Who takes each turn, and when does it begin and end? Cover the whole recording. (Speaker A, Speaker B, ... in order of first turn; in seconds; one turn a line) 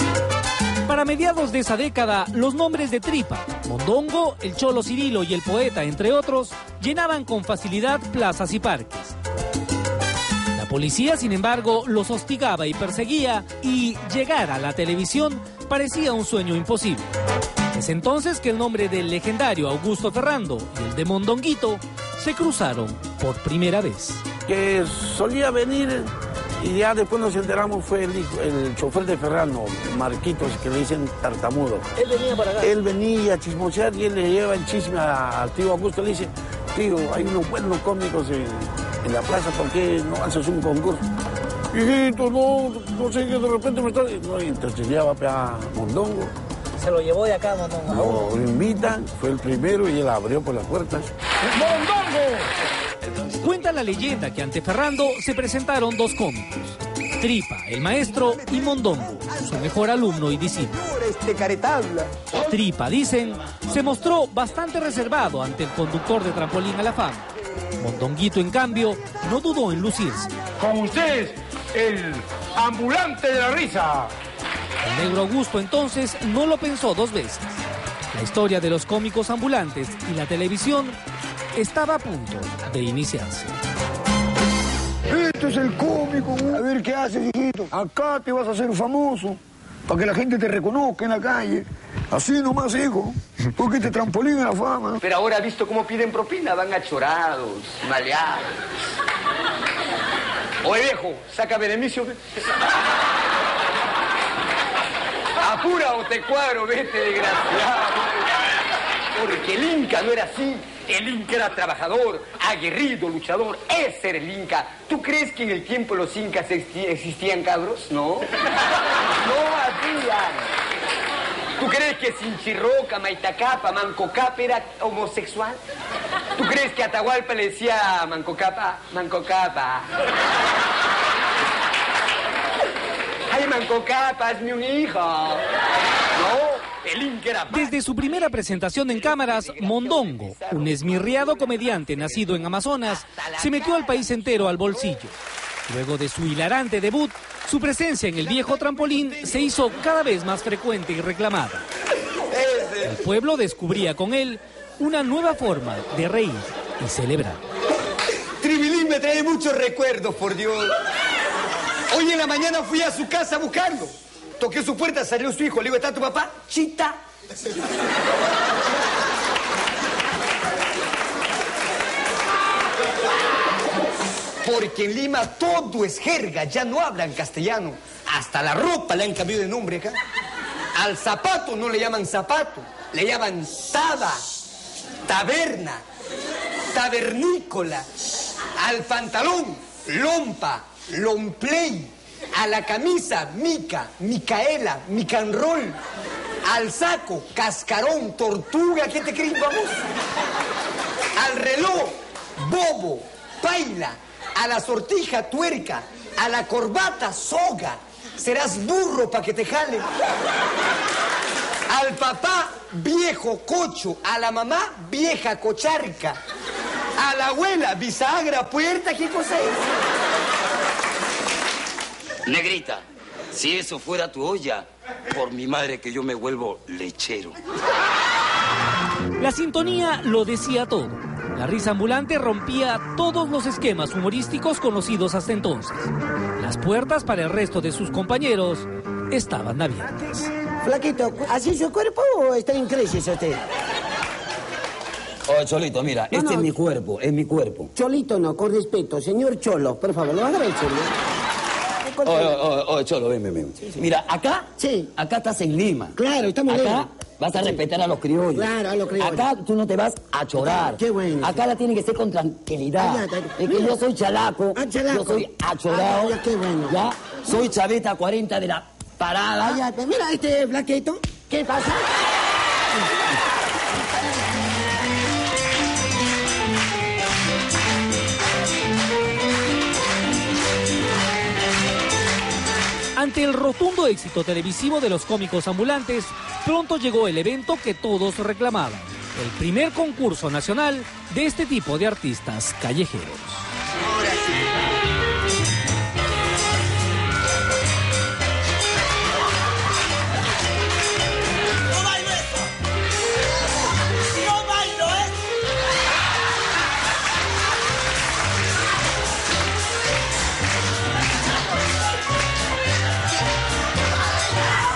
Speaker A: 0.8-9.1
Speaker A: 10.5-17.1
Speaker A: 17.7-24.2
Speaker B: 24.4-41.0
Speaker B: 41.7-46.3
Speaker B: 47.9-51.1
Speaker A: 53.4-60.7
Speaker C: 60.8-62.1
Speaker A: 62.3-67.2
Speaker A: 67.8-70.3
Speaker D: 70.6-74.0
Speaker A: 74.8-77.6
Speaker A: 78.1-81.0
Speaker A: 81.5-83.5
Speaker E: 85.1-86.8
Speaker E: 87.8-89.3
Speaker E: 89.9-91.6
Speaker E: 92.1-93.1
Speaker E: 93.6-94.9
Speaker C: 95.0-98.5
Speaker C: 100.6-102.2
Speaker C: 105.4-108.2
Speaker C: 109.1-118.3
Speaker C: 119.2-120.5
Speaker C: 121.6-125.6
Speaker C: 126.4-129.9
Speaker C: 133.3-135.4
Speaker C: 136.1-137.7
Speaker A: 137.5-145.1
Speaker C: 140.5-140.7
Speaker C: 143.0-144.4
Speaker A: 145.7-151.6
Speaker C: 152.3-152.9
Speaker A: 152.8-157.4
Speaker C: 158.4-160.7
Speaker C: 161.9-167.0
Speaker C: 174.4-179.9
Speaker C: 180.7-184.2
Speaker C: 185.1-185.8
Speaker C: 186.7-187.8
Speaker C: 188.6-195.8
Speaker C: 196.4-199.8
Speaker C: 201.2-209.9
Speaker C: 211.7-216.2
Speaker C: 217.0-219.6
Speaker F: 222.3-227.3
Speaker A: 229.2-239.9
Speaker G: 240.6-243.3
Speaker F: 245.3-247.7
Speaker G: 246.1-246.5
Speaker G: 247.7-250.9
Speaker F: 252.0-255.9
Speaker G: 252.1-252.4
Speaker G: 254.6-254.9
Speaker G: 256.0-256.8
Speaker F: 256.5-258.4
Speaker G: 258.3-259.2
Speaker F: 259.1-266.1
Speaker G: 260.4-261.4
Speaker G: 262.8-263.8
Speaker G: 264.5-266.7
Speaker F: 266.7-269.6
Speaker G: 269.4-271.8
Speaker A: 282.9-293.4
Speaker C: 293.8-294.4